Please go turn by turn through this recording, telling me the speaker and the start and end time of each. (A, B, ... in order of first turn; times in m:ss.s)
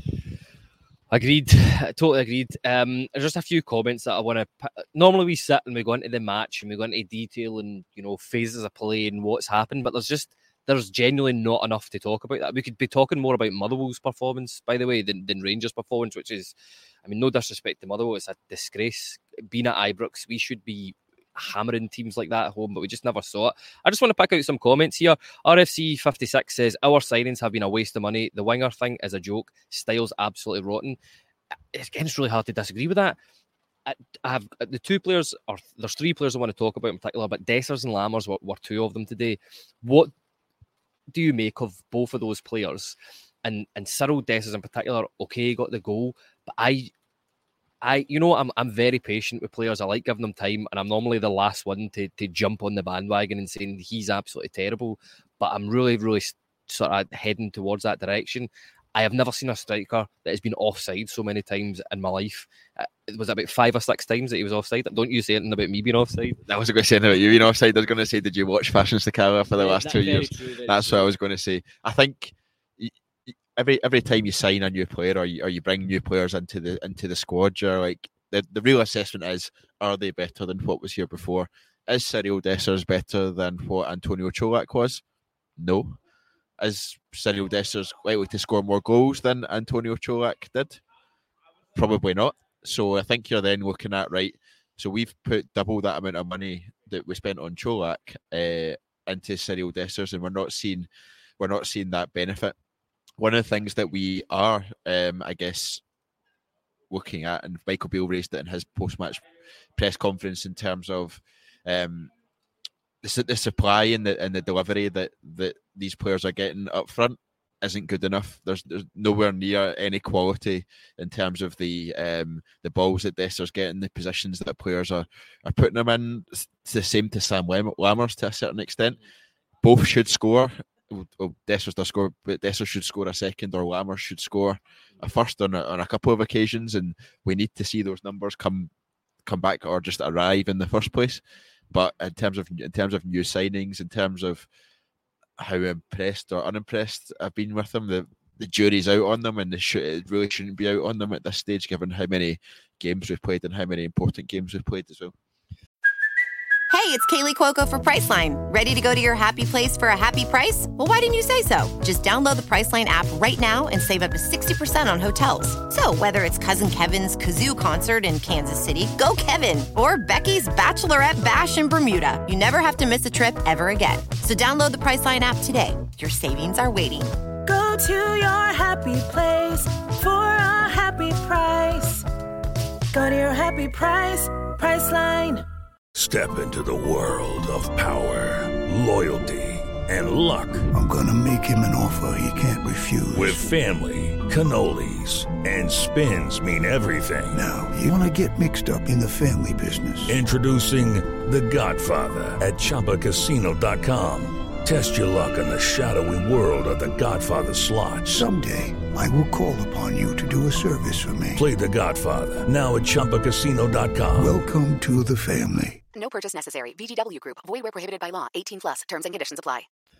0:01.1-0:16.5 A
0:17.0-0:31.0 A
0:31.7-0:33.2 A
0:33.8-0:40.1 A
0:41.1-0:46.9 A
0:47.8-1:06.4 A
1:06.4-1:25.0 B
1:09.5-1:11.0 A
1:25.6-1:26.0 B
1:26.6-1:30.8 B
1:31.7-1:40.9 B
1:41.4-1:42.6 B
1:43.2-1:45.8 B
1:46.9-1:49.2 B
1:49.8-1:52.1 B
1:53.0-2:09.0 B
2:09.6-2:18.7 B
2:19.2-2:24.5 B
2:25.4-2:35.1 B
2:36.7-2:57.2 C
2:57.4-3:02.0 D
3:02.9-3:05.4 D
3:05.9-3:10.7 E
3:10.7-3:13.5 F
3:13.1-3:17.4 E
3:17.3-3:20.2 F
3:20.0-3:28.3 E
3:28.1-3:31.4 F
3:31.4-3:34.4 E
3:34.2-3:35.8 F
3:35.9-3:39.7 G